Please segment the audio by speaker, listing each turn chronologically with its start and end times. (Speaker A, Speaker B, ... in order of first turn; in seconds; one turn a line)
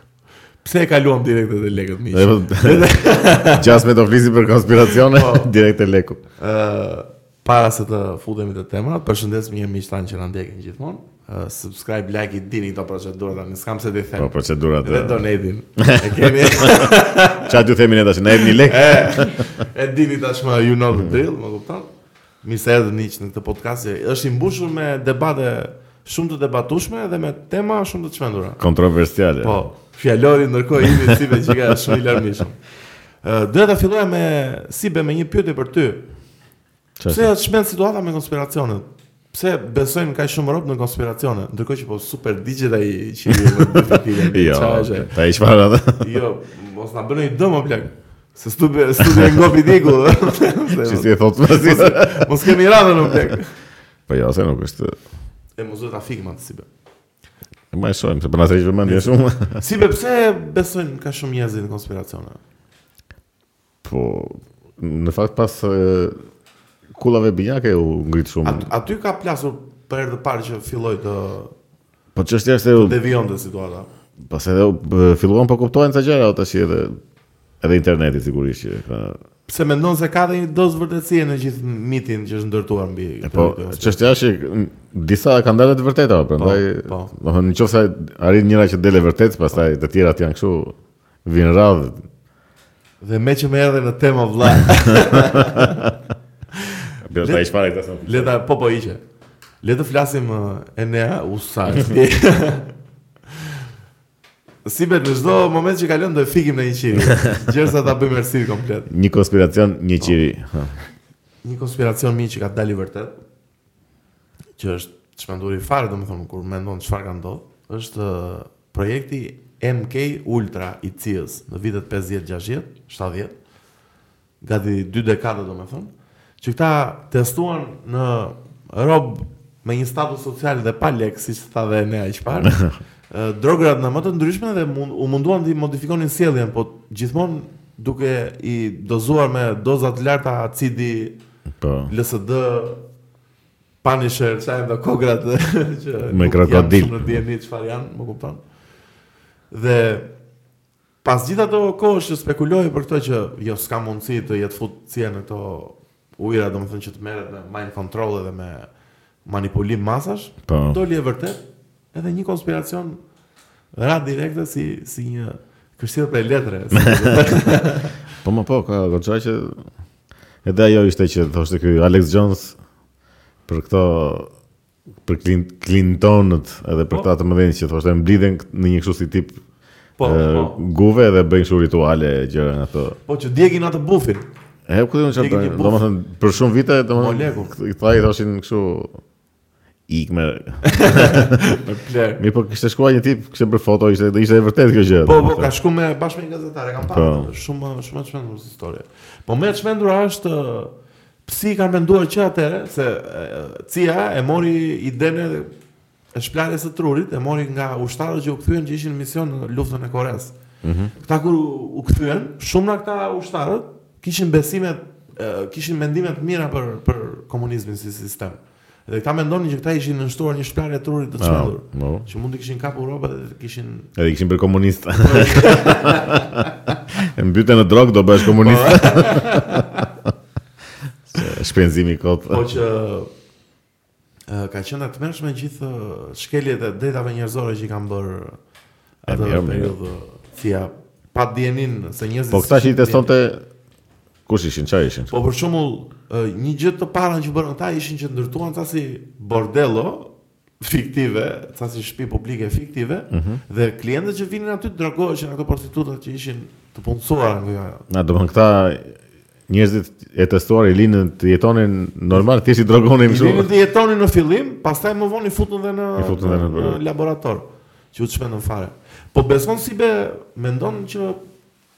Speaker A: 0.6-3.8
Speaker B: 2.1-2.9
Speaker B: 3.5-6.2
Speaker A: 5.0-5.5
Speaker A: 6.4-17.6
Speaker B: 14.2-15.2
Speaker B: 15.8-19.5
Speaker A: 18.4-21.9
Speaker A: 22.4-28.6
Speaker B: 28.6-29.5
Speaker A: 29.4-32.6
Speaker A: 33.2-36.0
Speaker B: 37.0-37.3
Speaker A: 37.1-45.1
Speaker B: 43.3-46.0
Speaker A: 46.0-53.5
Speaker B: 50.8-52.5
Speaker B: 54.1-54.9
Speaker A: 55.6-56.7
Speaker B: 57.7-59.6
Speaker A: 58.8-62.4
Speaker B: 63.8-66.2
Speaker B: 66.9-68.7
Speaker A: 68.4-71.5
Speaker B: 72.1-73.0
Speaker A: 72.7-73.9
Speaker B: 74.2-77.0
Speaker B: 77.6-79.2
Speaker A: 79.5-84.0
Speaker B: 83.2-92.0
Speaker A: 86.4-87.1
Speaker A: 93.0-95.8
Speaker A: 96.6-97.4
Speaker B: 97.0-98.3
Speaker A: 98.0-99.0
Speaker A: 99.6-102.7
Speaker A: 104.6-108.9
Speaker B: 108.9-110.7
Speaker A: 111.4-113.2
Speaker A: 114.6-123.3
Speaker A: 124.4-141.2
Speaker B: 132.4-132.7
Speaker B: 141.6-141.9
Speaker A: 141.9-142.8
Speaker A: 143.8-148.4
Speaker B: 146.1-147.2
Speaker A: 149.5-150.1
Speaker A: 151.0-158.7
Speaker A: 159.2-163.0
Speaker B: 160.5-160.8
Speaker A: 163.7-168.0
Speaker B: 166.8-167.3
Speaker B: 168.2-169.6
Speaker B: 170.4-172.6
Speaker B: 173.5-174.3
Speaker B: 175.0-179.4
Speaker A: 180.0-180.6
Speaker B: 180.0-183.0
Speaker A: 183.1-184.3
Speaker B: 184.7-189.0
Speaker A: 185.1-185.8
Speaker A: 186.9-187.5
Speaker B: 189.9-191.4
Speaker A: 190.6-192.2
Speaker B: 192.2-195.5
Speaker A: 195.0-200.7
Speaker B: 196.8-197.3
Speaker A: 201.2-205.5
Speaker A: 206.1-210.3
Speaker B: 210.6-210.9
Speaker A: 211.0-223.9
Speaker B: 221.2-222.1
Speaker B: 223.9-230.1
Speaker A: 225.0-226.5
Speaker A: 228.2-229.9
Speaker B: 231.1-232.4
Speaker A: 232.3-233.1
Speaker A: 234.3-238.4
Speaker A: 239.0-243.1
Speaker B: 239.1-239.7
Speaker B: 242.3-243.4
Speaker B: 244.3-245.1
Speaker A: 245.1-257.8
Speaker B: 253.1-253.4
Speaker B: 257.9-258.9
Speaker B: 259.5-263.5
Speaker A: 263.1-271.2
Speaker B: 266.0-266.8